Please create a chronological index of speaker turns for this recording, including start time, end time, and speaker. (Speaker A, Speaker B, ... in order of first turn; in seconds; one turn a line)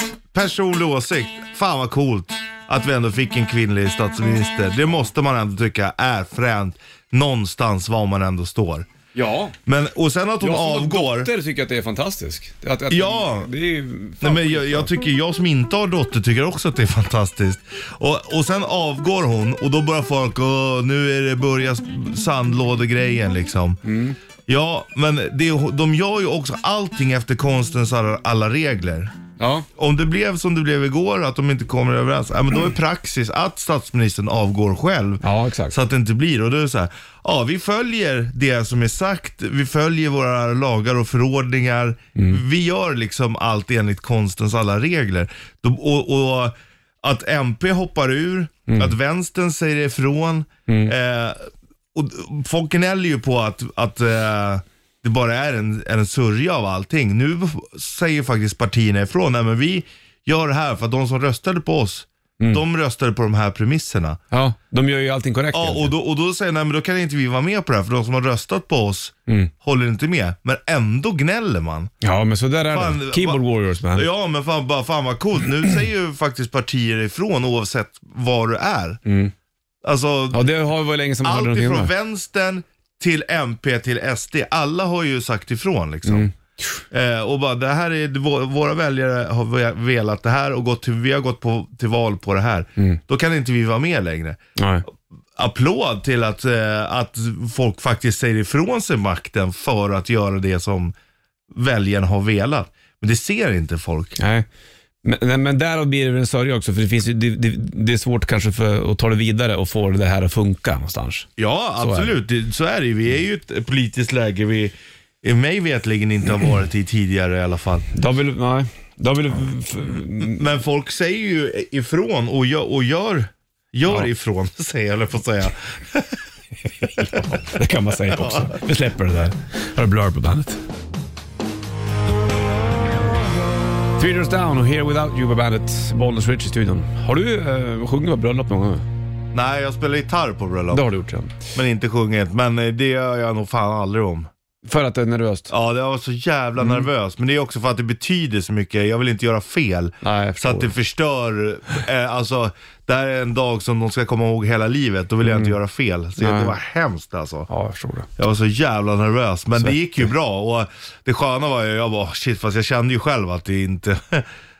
Speaker A: 0.3-8.9
Speaker B: 9.1-9.6
Speaker A: 9.7-11.3
Speaker B: 10.4-14.9
Speaker A: 12.9-13.5
Speaker A: 14.2-23.8
Speaker B: 23.8-24.2
Speaker A: 24.5-29.1
Speaker B: 29.4-29.7
Speaker A: 29.8-64.2
Speaker B: 35.2-35.8
Speaker B: 42.2-42.4
Speaker B: 48.7-49.0
Speaker B: 50.7-50.9
Speaker B: 64.3-65.9
Speaker A: 65.5-71.9
Speaker B: 72.0-74.1
Speaker A: 72.7-79.0
Speaker B: 79.1-79.3
Speaker A: 79.8-80.5
Speaker B: 80.3-81.9
Speaker A: 81.2-86.3
Speaker B: 86.0-86.8
Speaker A: 86.9-94.4
Speaker B: 94.6-94.8
Speaker A: 95.4-100.9
Speaker A: 101.5-104.2
Speaker B: 104.2-104.5
Speaker B: 105.0-111.3
Speaker A: 111.4-117.9
Speaker B: 111.8-112.1
Speaker B: 117.9-120.4
Speaker A: 120.2-126.1
Speaker B: 126.8-130.6
Speaker A: 127.0-127.4
Speaker A: 128.1-128.6
Speaker B: 134.0-138.8
Speaker A: 139.3-140.9
Speaker B: 140.7-141.3
Speaker A: 141.5-144.3
Speaker B: 144.6-145.5
Speaker A: 145.5-157.5
Speaker B: 150.0-150.7
Speaker B: 155.2-155.6
Speaker B: 156.2-156.6
Speaker B: 157.5-158.1
Speaker A: 158.2-164.3
Speaker B: 159.6-160.0